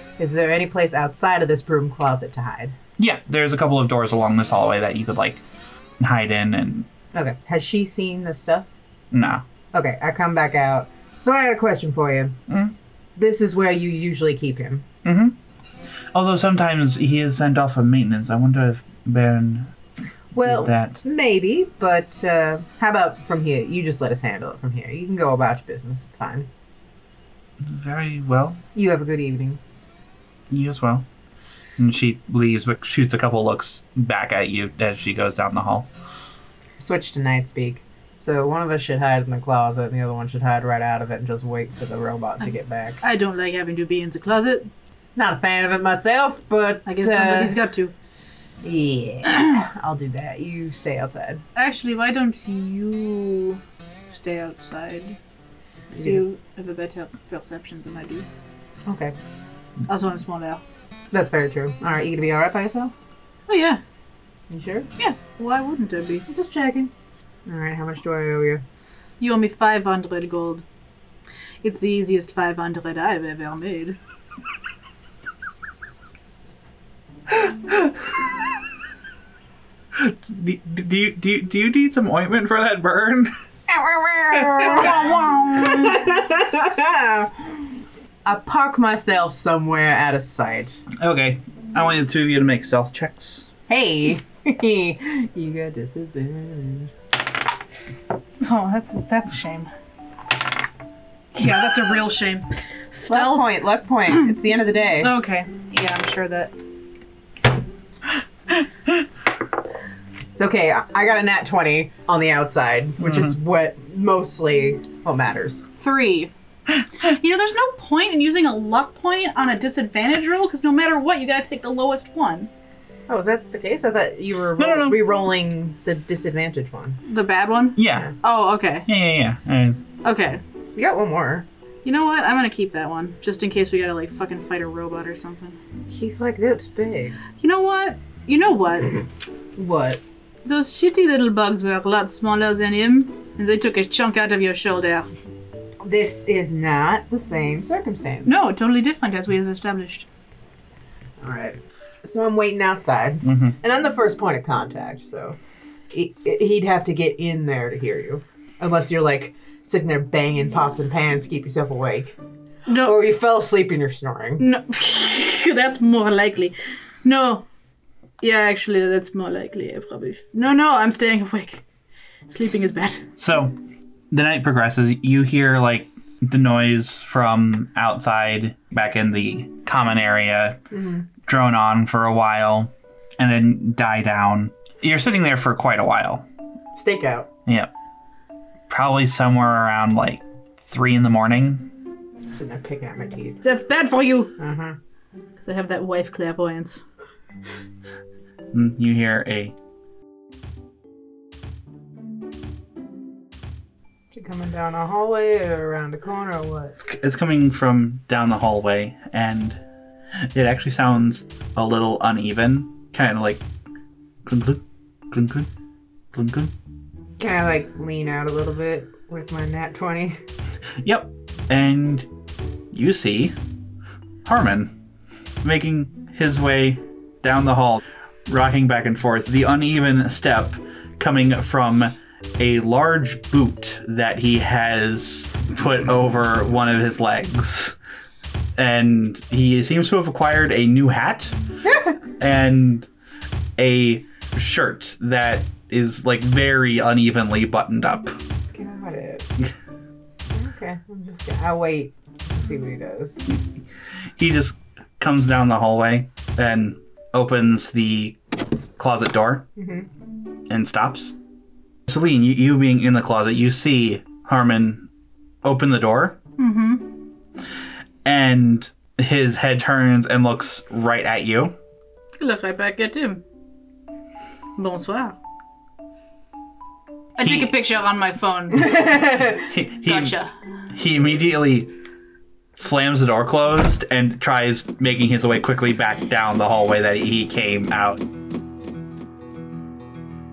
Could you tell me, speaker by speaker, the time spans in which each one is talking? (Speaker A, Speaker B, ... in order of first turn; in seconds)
Speaker A: 0.2-2.8, 7.1-8.7, 9.7-12.4, 13.2-14.8, 20.3-26.5, 28.7-29.6, 36.8-43.0, 45.1-47.6, 48.6-51.4, 55.9-56.2, 58.9-59.1, 61.1-62.9, 64.5-64.9, 66.3-66.9, 67.5-68.6, 83.7-87.6, 88.2-90.8, 93.7-96.9, 103.1-105.1, 110.3-115.7, 123.1-127.0, 130.8-131.5, 135.9-137.2, 139.6-140.0, 145.8-148.5, 151.2-155.4, 155.9-162.2, 162.7-164.4, 180.7-181.0, 186.7-187.3, 192.3-193.4, 194.4-194.8, 204.1-206.8, 217.2-220.2, 241.6-241.9, 248.5-249.3, 250.3-253.2, 259.6-259.9, 278.7-279.4
Speaker B: 3.0-5.4, 6.0-6.9, 9.1-9.4, 12.5-12.7, 15.0-15.4, 16.1-19.7, 20.4-21.0, 27.6-28.6, 30.5-31.1, 31.8-35.9, 79.9-83.3, 84.3-84.7, 91.0-93.5, 113.0-113.3, 116.8-117.1, 124.6-125.2, 127.8-128.1, 128.9-129.8, 153.2-153.5, 173.2-173.5, 174.1-180.6, 181.2-186.2, 188.7-191.7, 198.5-199.5, 206.8-209.6, 210.2-213.4, 214.2-215.5, 216.1-216.5, 220.8-222.1, 222.7-223.4, 224.2-224.7, 225.4-237.8, 238.6-241.4, 242.2-242.9, 243.6-248.2, 253.3-253.6, 254.2-258.2, 258.8-259.5, 260.5-261.1, 261.9-264.9, 265.4-266.2, 268.0-271.6, 277.2-277.5, 279.4-280.2, 280.7-281.7, 282.5-288.0
Speaker C: 43.0-44.7, 46.9-47.9, 51.5-55.2, 56.0-58.3, 59.9-60.6, 63.5-63.8, 65.0-66.3, 69.2-70.6, 71.6-74.0, 84.6-86.0, 98.4-99.7, 101.3-103.5, 105.0-106.5, 115.8-116.3, 117.0-122.5, 127.0-128.9, 130.0-130.4, 131.8-135.6, 137.4-139.0, 140.4-145.1, 148.2-150.1, 162.7-162.9, 164.4-167.4, 168.2-171.6, 172.3-173.1, 193.4-194.3, 195.4-196.8, 266.4-266.9, 272.2-273.2, 274.6-275.2, 277.2-278.9, 279.8-280.3